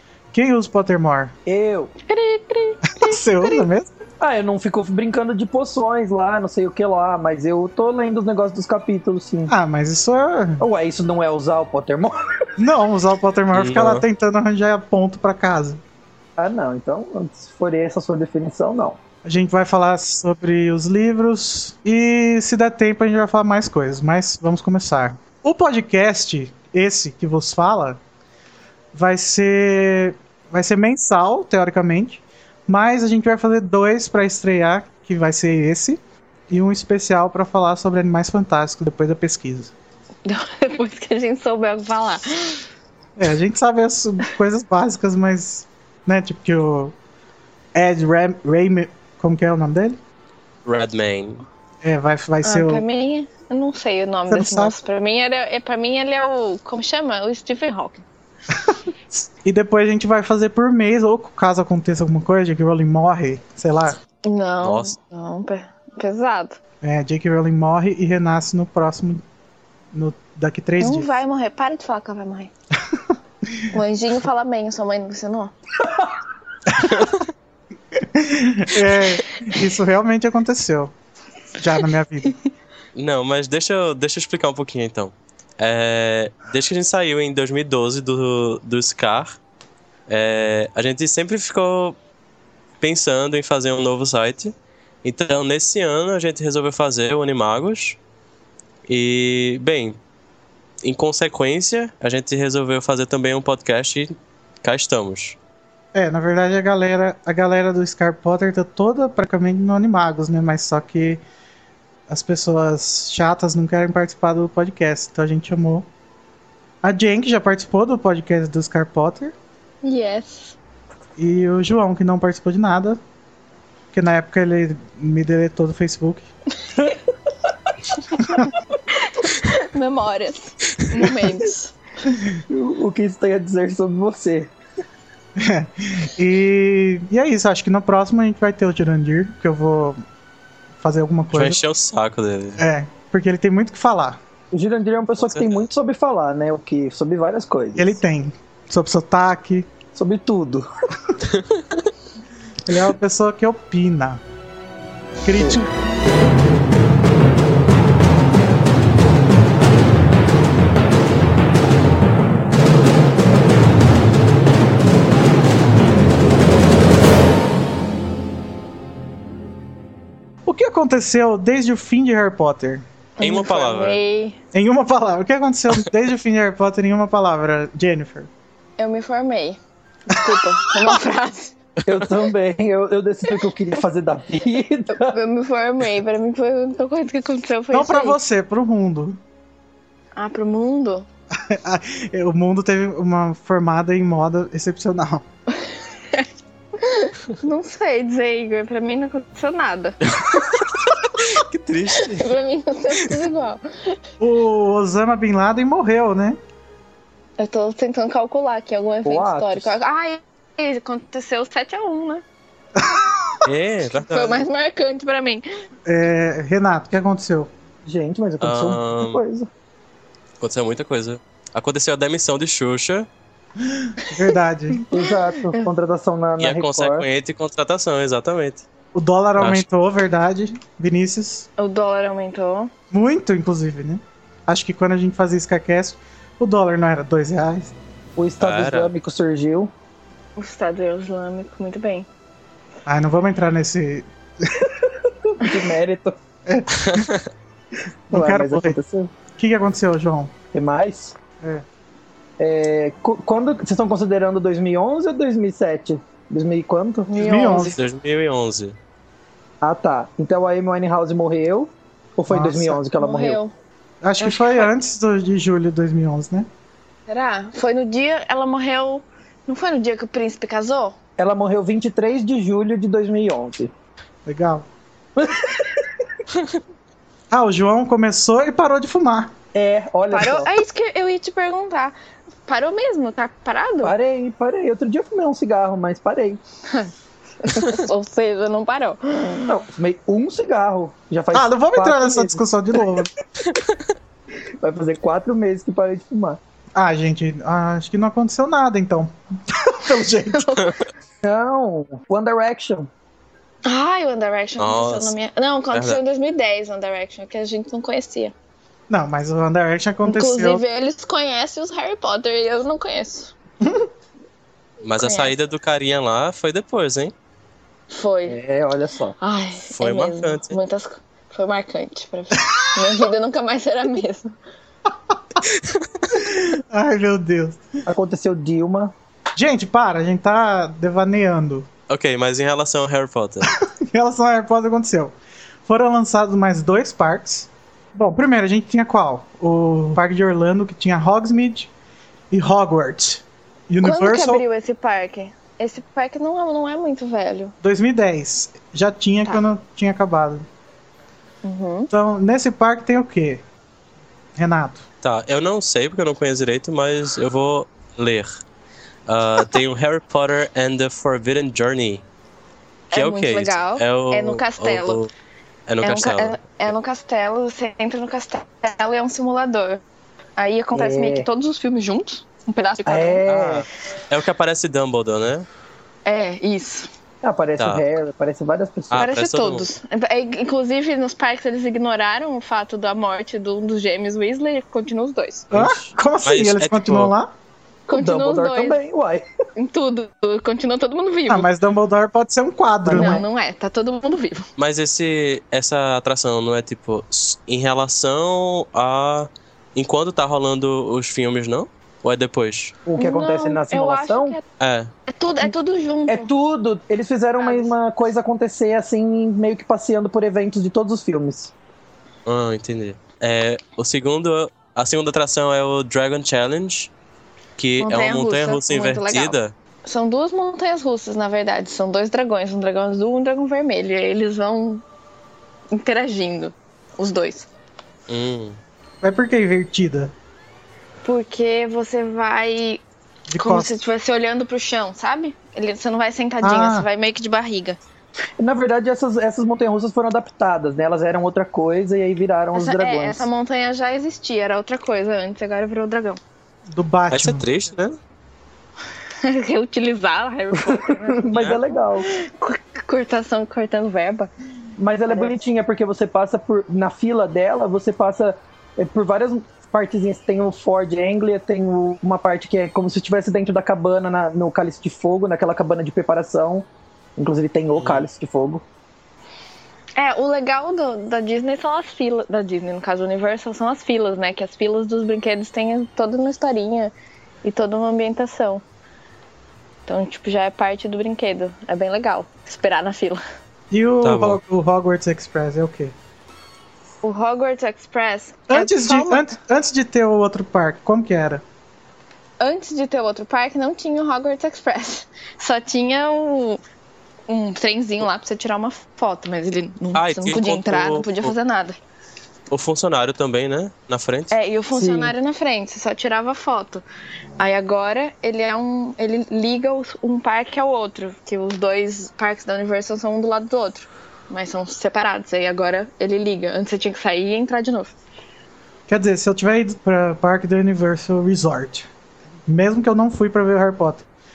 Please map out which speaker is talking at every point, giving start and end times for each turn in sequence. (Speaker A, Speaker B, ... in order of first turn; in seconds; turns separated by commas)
Speaker A: 0.3-1.3, Speaker B: 1.5-1.9, Speaker C: 2.1-3.7, Speaker A: 3.0-3.9, Speaker B: 4.2-9.5, Speaker A: 9.5-10.7, Speaker B: 10.6-12.2, Speaker A: 12.6-15.8, Speaker D: 13.5-14.0, Speaker B: 16.4-19.0, Speaker A: 19.2-28.0, Speaker A: 28.9-39.7, Speaker C: 40.2-42.7, Speaker A: 43.2-47.0, Speaker A: 47.7-50.0, Speaker D: 50.6-51.5, Speaker A: 51.8-52.8, Speaker C: 52.4-58.0, Speaker A: 54.3-54.8, Speaker A: 58.5-64.0, Speaker C: 64.2-66.6, Speaker D: 64.6-65.0, Speaker A: 66.8-69.2, Speaker A: 69.9-71.1, Speaker C: 70.8-72.5, Speaker A: 72.9-73.7, Speaker C: 73.7-75.5, Speaker A: 76.7-77.0, Speaker A: 77.9-80.9, Speaker A: 81.6-82.4, Speaker C: 81.8-82.3, Speaker D: 83.0-89.4, Speaker D: 90.1-92.0, Speaker D: 92.8-98.0, Speaker D: 98.9-100.0, Speaker D: 100.8-105.4, Speaker A: 105.9-111.2, Speaker A: 112.1-115.9, Speaker A: 116.8-119.3, Speaker C: 119.8-120.6, Speaker A: 121.2-123.0, Speaker A: 123.9-126.3, Speaker C: 128.1-131.8, Speaker A: 128.2-128.5, Speaker B: 132.5-134.5, Speaker A: 135.4-140.0, Speaker A: 140.8-141.6, Speaker D: 141.3-142.6, Speaker A: 142.6-144.2, Speaker B: 144.5-148.0, Speaker D: 145.2-145.7, Speaker A: 147.8-149.7, Speaker B: 149.9-150.7, Speaker D: 151.3-151.8, Speaker A: 152.7-154.2, Speaker A: 155.2-155.7, Speaker B: 155.4-155.7, Speaker A: 170.5-172.8, Speaker C: 173.2-174.4, Speaker D: 173.2-174.0, Speaker A: 174.5-178.3, Speaker C: 178.8-179.6, Speaker A: 180.1-180.9, Speaker C: 180.1-181.6, Speaker B: 181.9-185.2, Speaker C: 184.9-188.2, Speaker A: 187.7-189.2, Speaker C: 190.2-191.1, Speaker A: 191.4-195.2, Speaker C: 195.6-196.3, Speaker C: 196.8-200.0, Speaker D: 200.1-202.3, Speaker C: 201.9-204.0, Speaker A: 204.2-206.4, Speaker C: 207.4-212.2, Speaker B: 209.1-209.7, Speaker A: 212.8-213.4, Speaker D: 213.4-214.4, Speaker C: 214.1-215.4, Speaker A: 215.9-217.5, Speaker B: 217.8-219.5, Speaker D: 218.4-219.2, Speaker D: 220.4-223.1, Speaker A: 223.6-224.8, Speaker C: 224.7-225.7, Speaker B: 224.9-227.1, Speaker D: 226.4-228.7, Speaker A: 228.9-231.5, Speaker D: 229.4-229.7, Speaker C: 231.6-232.7, Speaker A: 232.9-237.7, Speaker B: 238.2-239.7, Speaker D: 238.4-238.9, Speaker C: 240.4-242.1, Speaker A: 242.9-244.7, Speaker B: 244.8-246.2, Speaker A: 246.5-247.1, Speaker D: 246.8-247.3, Speaker B: 248.1-249.1, Speaker A: 248.1-248.8, Speaker A: 249.4-250.3, Speaker B: 250.5-251.2, Speaker B: 252.4-257.1, Speaker C: 257.1-257.8, Speaker A: 257.2-257.8, Speaker D: 257.8-258.8, Speaker B: 259.6-263.4, Speaker A: 262.3-262.8, Speaker C: 263.0-263.5, Speaker A: 264.0-266.5, Speaker C: 264.2-264.7, Speaker C: 267.1-270.9, Speaker B: 271.2-273.7, Speaker A: 274.2-274.7, Speaker B: 275.2-276.0, Speaker A: 277.3-279.3, Speaker B: 279.5-280.5, Speaker C: 280.1-283.9, Speaker B: 283.8-286.4, Speaker C: 286.7-289.6, Speaker B: 289.4-292.4, Speaker A: 291.3-293.1, Speaker B: 294.6-296.4, Speaker A: 296.8-300.5, Speaker C: 300.3-300.7, Speaker B: 301.2-302.9, Speaker C: 303.6-308.3, Speaker D: 304.6-305.1, Speaker D: 305.7-306.0, Speaker A: 308.9-310.6, Speaker C: 310.1-313.3, Speaker A: 313.6-313.9, Speaker D: 314.8-317.1, Speaker C: 315.0-315.3, Speaker C: 317.9-318.4, Speaker B: 318.3-319.2, Speaker C: 319.2-324.3, Speaker D: 319.8-320.6, Speaker A: 325.1-325.4, Speaker A: 326.1-327.6, Speaker B: 327.9-328.9, Speaker A: 329.4-331.7, Speaker D: 331.9-333.5, Speaker A: 333.4-335.1, Speaker A: 335.7-341.7, Speaker A: 342.3-344.4, Speaker C: 343.8-347.5, Speaker A: 347.6-350.4, Speaker C: 351.4-351.9, Speaker A: 351.9-353.4, Speaker A: 354.4-354.8, Speaker D: 355.0-358.3, Speaker D: 359.1-362.0, Speaker C: 362.9-365.0, Speaker D: 362.9-365.1, Speaker D: 365.7-366.5, Speaker C: 365.8-369.8, Speaker C: 370.4-373.2, Speaker B: 370.8-371.3, Speaker B: 372.9-373.7, Speaker D: 373.3-375.5, Speaker C: 376.1-376.9, Speaker B: 377.2-379.1, Speaker D: 377.6-377.9, Speaker D: 378.9-379.7, Speaker C: 378.9-385.5, Speaker D: 385.5-387.1, Speaker A: 385.5-387.3, Speaker C: 387.9-388.8, Speaker B: 387.9-389.3, Speaker C: 389.6-391.5, Speaker A: 391.3-393.2, Speaker B: 392.9-393.2, Speaker C: 392.9-394.5, Speaker D: 394.6-402.8, Speaker B: 402.9-404.4, Speaker C: 403.0-404.4, Speaker D: 404.6-404.9, Speaker C: 405.1-406.3, Speaker B: 406.1-411.5, Speaker C: 407.4-407.8, Speaker D: 412.3-416.9, Speaker D: 417.6-419.5, Speaker C: 417.8-424.8, Speaker C: 425.7-427.5, Speaker D: 428.1-428.6, Speaker A: 429.0-430.1, Speaker C: 431.0-432.8, Speaker A: 433.3-433.7, Speaker C: 433.4-437.8, Speaker A: 436.4-436.9, Speaker B: 438.4-443.3, Speaker C: 442.5-446.2, Speaker A: 446.7-447.4, Speaker D: 447.1-448.0, Speaker C: 449.2-454.3, Speaker B: 450.7-452.1, Speaker D: 451.3-451.6, Speaker B: 454.8-468.6, Speaker D: 467.8-468.1, Speaker C: 470.0-476.9, Speaker C: 477.4-478.6, Speaker C: 479.9-483.2, Speaker A: 483.7-485.9, Speaker D: 484.0-484.4, Speaker C: 487.0-489.3, Speaker A: 488.5-491.4, Speaker C: 492.4-496.6, Speaker C: 497.3-501.8, Speaker D: 499.9-501.3, Speaker D: 502.5-504.3, Speaker C: 504.3-506.8, Speaker B: 504.7-505.1, Speaker C: 507.4-517.9, Speaker A: 518.9-521.9, Speaker A: 522.5-524.0